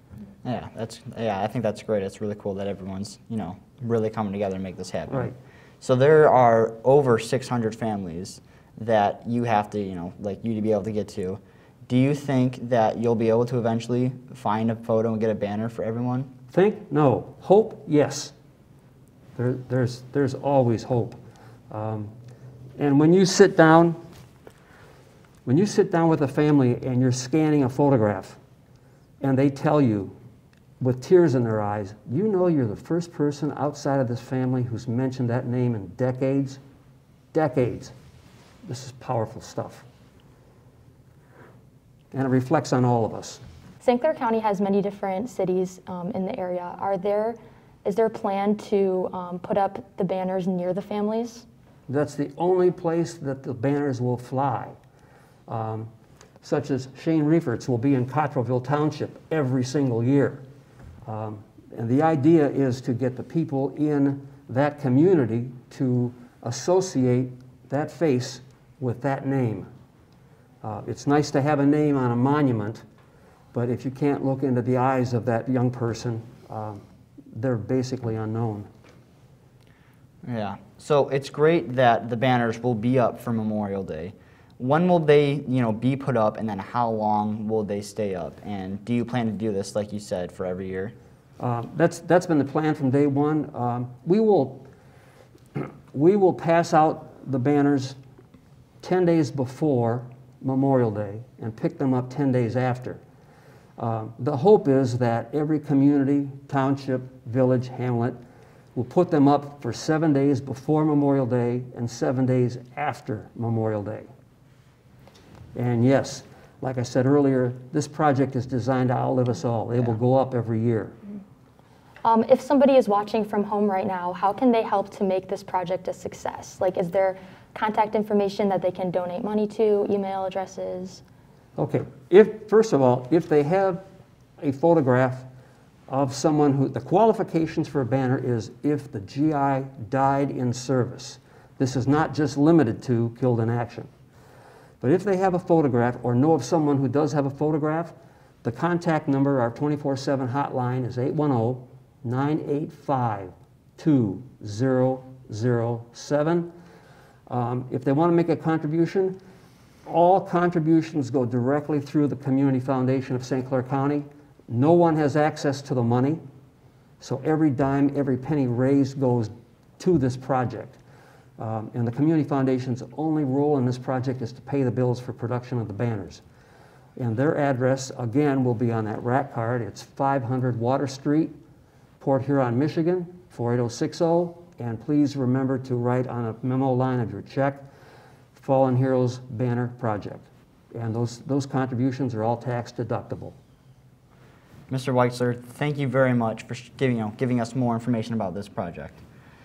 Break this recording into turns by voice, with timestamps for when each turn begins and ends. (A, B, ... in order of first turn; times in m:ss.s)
0:00.4-0:16.3 A
0:05.1-0:05.3 B
0:16.5-0:18.3 B
0:19.4-0:22.1 B
0:22.8-0:24.0 B
0:25.4-0:28.4 B
0:29.2-0:30.2 B
0:30.8-0:36.6 B
0:37.3-0:37.9 B
0:38.6-0:39.8 B
0:42.1-0:43.4 B
0:43.8-0:51.4 C
0:51.9-0:54.8 B
0:55.5-0:55.9 B
0:56.4-1:00.4 B
1:01.0-1:09.7 B
1:10.6-1:12.8 B
1:13.5-1:18.7 B
1:20.2-1:30.9 A
1:31.4-1:34.7 B
1:35.5-1:38.0 B
1:38.8-1:43.0 B
1:43.8-1:48.2 B
1:48.7-1:54.1 B
1:55.5-2:01.0 B
2:02.0-2:11.0 C
2:11.6-2:13.8 B
2:14.4-2:15.3 B
2:15.9-2:23.9 B
2:24.8-2:36.5 B
2:37.3-2:39.2 B
2:39.8-2:46.2 B
2:47.0-2:50.8 B
2:51.4-2:56.2 B
2:57.0-3:01.3 B
3:02.0-3:07.7 B
3:08.3-3:13.4 B
3:14.7-3:19.0 A